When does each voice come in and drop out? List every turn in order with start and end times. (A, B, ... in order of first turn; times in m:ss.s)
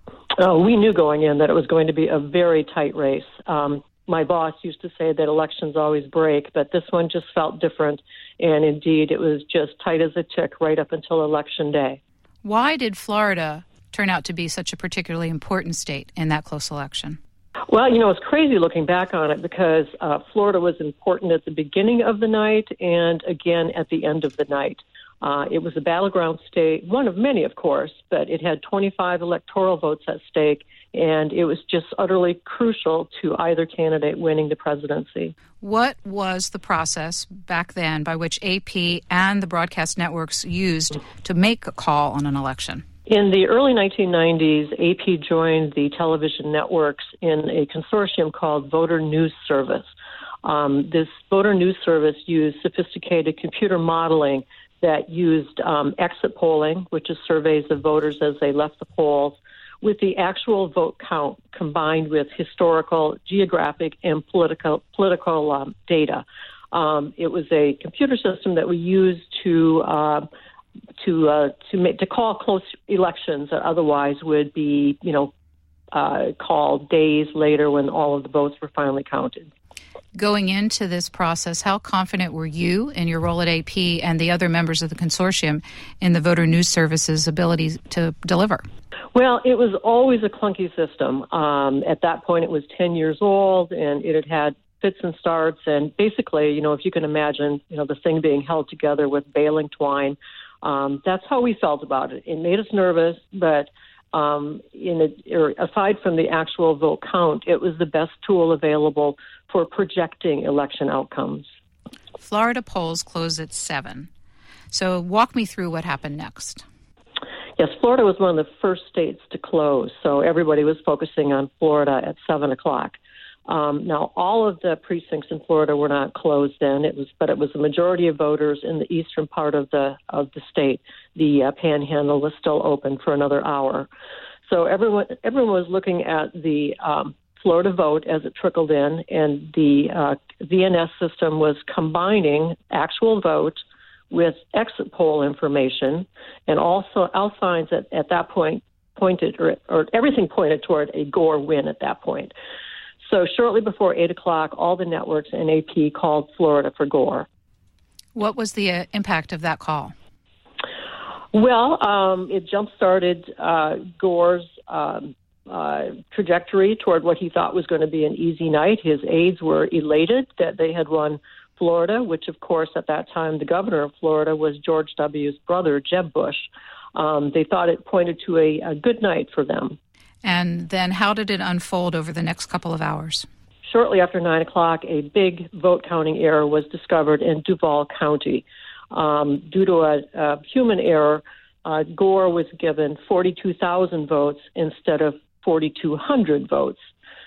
0:00.4-0:12.0 A
0:12.4-0:17.2 B
0:17.7-0:35.3 A
0:35.6-0:42.8 B
0:43.1-0:49.9 A
0:50.4-1:10.3 A
1:11.0-1:15.3 A
1:15.9-1:19.5 A
1:20.1-1:28.6 B
1:29.1-1:51.4 A
1:52.2-1:54.1 B
1:54.7-1:56.6 B
1:57.6-2:13.9 A
2:14.4-2:23.6 A
2:24.1-2:32.3 A
2:33.0-2:37.2 A
2:38.1-2:39.9 B
2:41.3-2:59.8 A
3:00.2-3:03.2 B
3:03.6-3:16.8 A